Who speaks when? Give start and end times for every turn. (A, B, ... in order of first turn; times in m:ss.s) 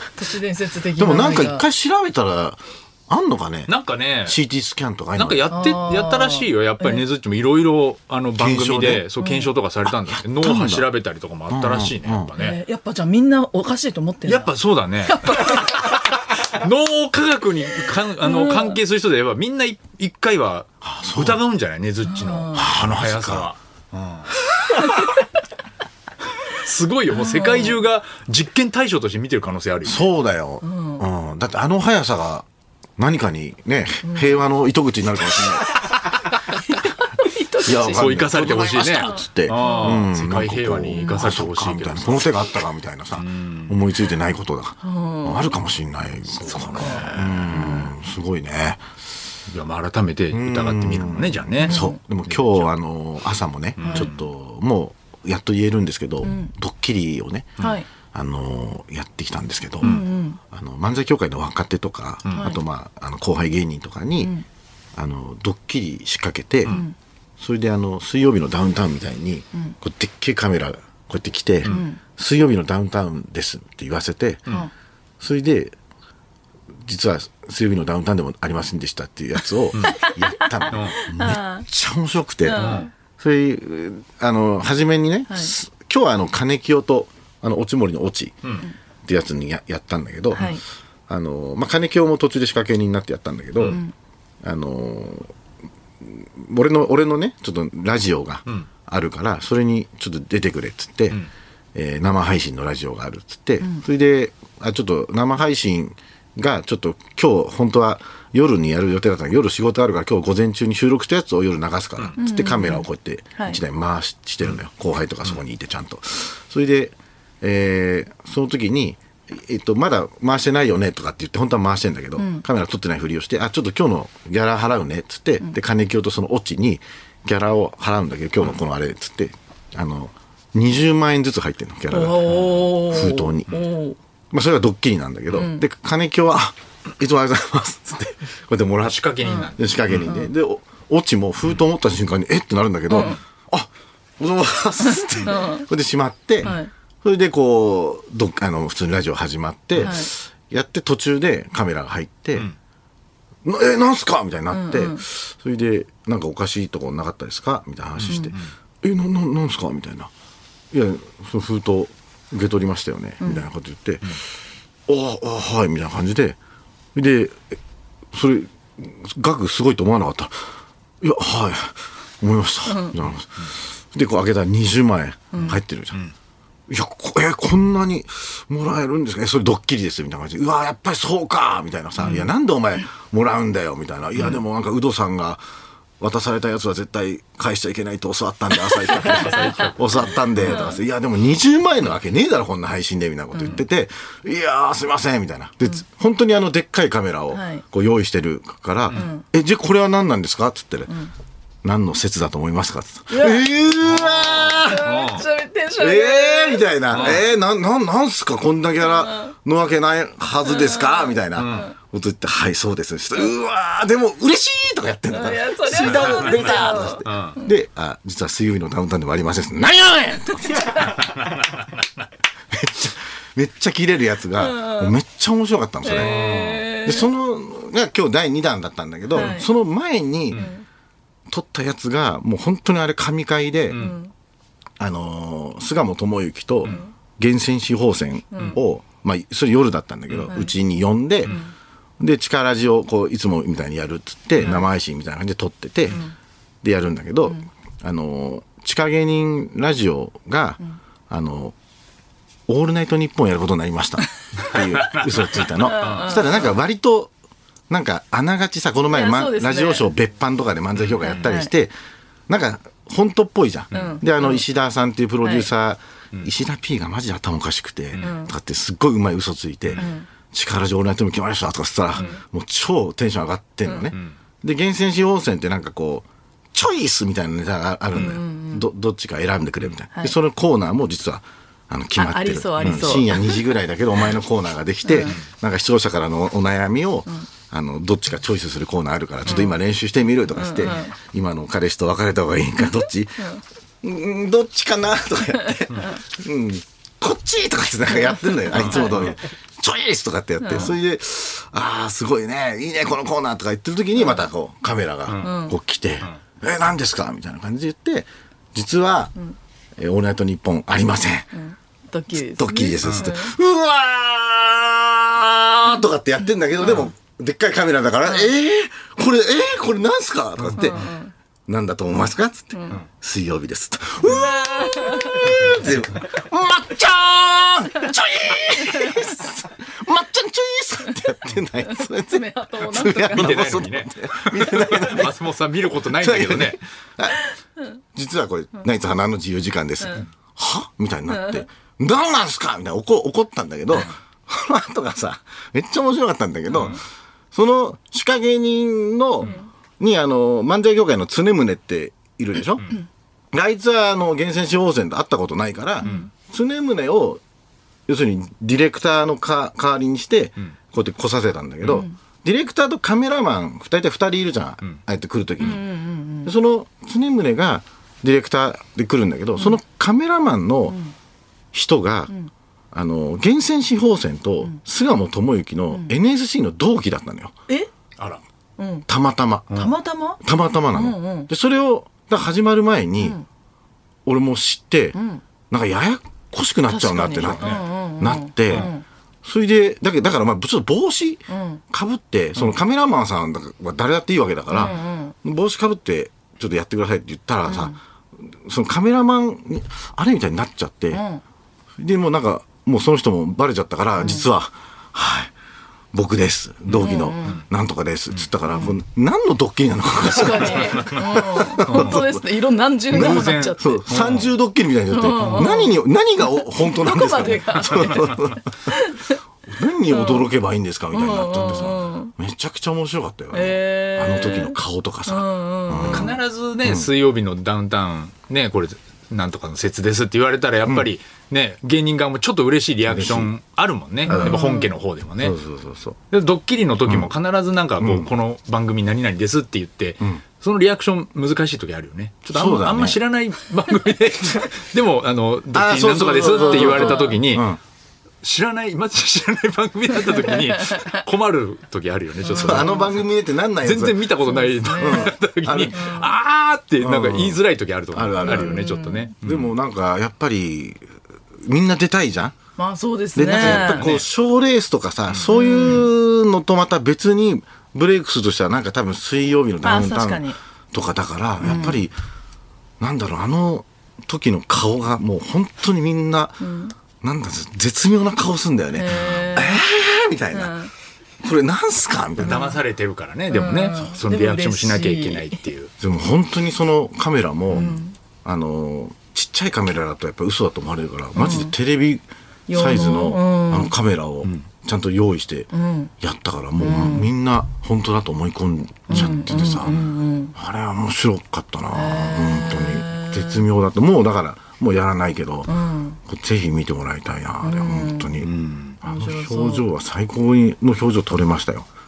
0:00.1-0:01.6 A
0:01.0-0:03.7 B
0:03.7-0:04.4 C
0:04.3-0:05.5 B
0:05.2-0:12.6 C
0:05.5-0:07.0 A
0:08.4-0:09.0 B
0:09.2-0:09.5 A
0:10.1-0:10.9 B
0:11.5-0:12.3 B
0:12.4-0:14.5 A
0:14.2-0:24.3 C
0:15.1-0:15.9 A
0:18.2-0:18.8 A
0:20.8-0:21.4 B
0:22.0-0:22.6 A
0:22.6-0:23.5 B
0:26.5-0:30.1 C
0:27.1-0:27.8 A
0:29.8-0:32.5 B
0:30.6-0:31.1 A
0:33.0-0:35.8 B
0:34.0-0:34.4 A
0:37.2-0:40.0 A
0:37.6-0:48.8 B
0:37.9-0:42.4 C
0:41.0-0:41.2 A
0:43.2-0:43.8 C
0:44.8-0:45.6 A
0:46.3-0:47.9 C
0:46.5-0:47.1 A
0:49.5-0:52.7 C
0:50.3-0:57.6 B
0:51.6-0:52.0 A
0:53.8-0:54.2 C
0:53.8-0:54.1 A
0:56.2-0:56.5 A
0:57.6-0:57.9 A
0:58.1-1:04.3 B
0:59.8-1:00.1 C
0:59.8-1:00.4 A
1:02.3-1:02.5 C
1:02.3-1:02.6 A
1:05.0-1:06.8 B
1:06.7-1:06.9 A
1:07.4-1:14.4 B
1:11.6-1:12.0 A
1:15.2-1:15.8 B
1:16.8-1:28.5 B
1:19.9-1:20.2 A
1:20.7-1:21.1 C
1:20.7-1:21.6 A
1:22.5-1:22.9 A
1:22.5-1:22.9 C
1:29.0-1:30.6 B
1:30.3-1:30.6 A
1:31.1-1:33.8 B
1:33.7-1:33.9 A
1:34.4-1:35.3 B
1:36.0-1:41.2 B
1:41.7-2:13.6 B
1:52.2-1:52.9 A
2:02.2-2:02.4 A
2:11.9-2:14.0 A
2:14.3-2:32.5 B
2:15.3-2:15.6 A
2:18.8-2:20.1 C
2:19.2-2:19.5 A
2:22.9-2:23.2 A
2:24.9-2:25.6 A
2:26.4-2:26.7 A
2:29.8-2:30.1 A
2:33.4-2:40.1 B
2:34.5-2:35.0 A
2:38.0-2:38.5 C
2:38.1-2:38.3 A
2:40.7-2:44.2 B
2:43.2-2:43.5 A
2:44.9-2:46.4 B
2:47.0-2:47.6 B
2:48.1-2:50.4 B
2:51.0-2:56.0 B
2:52.7-2:53.0 A
2:55.3-2:55.6 A
2:55.4-2:56.1 C
2:56.7-3:05.4 B
3:06.0-3:20.9 B
3:08.9-3:10.0 C
3:10.4-3:10.8 A
3:17.3-3:17.6 A
3:18.9-3:19.2 A
3:21.6-3:24.9 B
3:23.1-3:27.1 A
3:24.0-3:25.2 C
3:25.8-3:41.1 B
3:26.9-3:27.2 C
3:28.8-3:29.3 A
3:31.4-3:31.7 C
3:31.4-3:31.7 A
3:35.1-3:37.4 A
3:35.8-3:37.4 C
3:40.4-3:41.0 A
3:40.9-3:41.8 C
3:42.5-3:50.5 B
3:44.4-3:44.9 A
3:45.8-3:47.1 A
3:45.9-3:46.6 C
3:49.2-3:49.5 A
3:50.3-3:50.6 A
3:51.3-3:53.8 B
3:53.7-3:54.0 C
3:53.7-3:54.1 A
3:54.8-4:01.4 B
3:58.3-3:58.6 A
4:00.1-4:00.4 C
4:00.3-4:00.5 A
4:02.0-4:06.0 B
4:06.6-4:11.6 B
4:12.5-4:17.1 B
4:14.5-4:16.1 C
4:15.4-4:16.4 A
4:17.7-4:21.7 B
4:18.9-4:19.8 A
4:21.1-4:21.5 A
4:22.3-5:09.2 B
4:23.7-4:24.4 A
4:25.2-4:25.5 A
4:28.0-4:28.3 A
4:29.8-4:30.1 A
4:33.7-4:33.9 A
4:38.0-4:38.7 A
4:42.0-4:43.4 A
4:42.6-4:43.0 C
4:44.9-4:45.2 A
4:50.4-4:50.9 A
4:57.9-4:59.1 A
4:58.5-4:59.0 C
5:00.4-5:00.7 A
5:05.2-5:05.5 A
5:09.8-5:11.3 B
5:11.3-5:13.3 A
5:12.1-5:20.9 B
5:12.8-5:13.1 C
5:20.6-5:21.1 A
5:21.5-5:35.2 B
5:22.5-5:22.8 A
5:24.0-5:25.6 A
5:32.1-5:33.5 A
5:33.0-5:36.6 C
5:35.8-5:37.2 B
5:37.9-5:46.8 B
5:41.1-5:41.4 A
5:47.3-5:52.7 B
5:53.3-5:57.2 B
5:55.8-5:56.1 A
5:57.9-6:05.6 B
6:05.4-6:06.3 A
6:06.2-6:10.8 B
6:10.7-6:10.9 A
6:11.5-6:12.1 B
6:12.7-6:17.3 B
6:18.6-6:18.9 A
6:18.9-6:19.6 B
6:19.5-6:20.2 A
6:20.2-6:23.2 B
6:20.7-6:21.3 A
6:23.0-6:23.2 A
6:24.1-6:25.0 B
6:25.0-6:25.2 A
6:25.5-6:28.7 B
6:26.7-6:28.8 A
6:27.2-6:27.6 C
6:29.2-6:41.0 B
6:31.3-6:31.6 A
6:34.5-6:35.1 A
6:37.5-6:37.8 A
6:40.9-6:41.2 A
6:41.8-6:45.3 B
6:44.0-6:44.3 A
6:45.9-6:52.2 B
6:46.7-6:47.4 C
6:46.7-6:47.4 A
6:50.1-6:53.8 A
6:51.6-6:52.1 C
6:52.9-6:54.3 C
6:52.9-6:58.4 B
6:54.9-6:59.2 A
6:55.2-6:55.6 C
6:57.8-6:58.3 C
6:59.5-7:06.9 B
6:59.9-7:00.3 A
7:00.9-7:02.1 A
7:03.3-7:06.1 A
7:05.9-7:15.4 C
7:12.9-7:13.3 B
7:14.1-7:14.7 A
7:14.1-7:14.4 B
7:15.2-7:16.0 B
7:16.1-7:27.5 C
7:17.8-7:18.1 B
7:22.3-7:23.0 B
7:25.5-7:27.6 B
7:26.2-7:27.2 A
7:28.2-7:33.0 C
7:30.0-7:31.0 A
7:32.3-7:32.9 A
7:32.4-7:34.1 B
7:33.6-7:39.6 C
7:34.2-7:35.2 A
7:34.8-7:35.9 B
7:35.7-7:36.1 A
7:36.8-7:37.4 B
7:37.9-7:40.9 B
7:38.2-7:39.1 A
7:41.4-7:42.4 B
7:42.6-7:44.0 A
7:43.2-7:51.9 B
7:43.3-7:44.0 C
7:45.3-7:45.9 A
7:49.6-7:50.4 A
7:51.4-7:51.8 A
7:52.8-7:56.4 B
7:56.4-7:56.7 A
7:57.0-8:00.6 B
7:58.7-7:59.6 A
8:00.3-8:00.7 A
8:01.2-8:02.6 B
8:02.2-8:05.7 C
8:02.2-8:02.6 A
8:03.3-8:05.4 A
8:05.8-8:15.5 B
8:07.5-8:08.0 A
8:11.2-8:11.5 A
8:12.5-8:13.7 A
8:15.5-8:15.9 A
8:16.0-8:19.8 B
8:16.6-8:17.1 A
8:18.9-8:19.3 C
8:18.9-8:20.3 A
8:20.4-8:25.5 B
8:21.7-8:23.4 A
8:25.5-8:26.0 A
8:26.1-8:28.3 B
8:27.4-8:28.1 A
8:28.2-8:28.8 C
8:28.8-8:31.7 B
8:28.8-8:29.7 A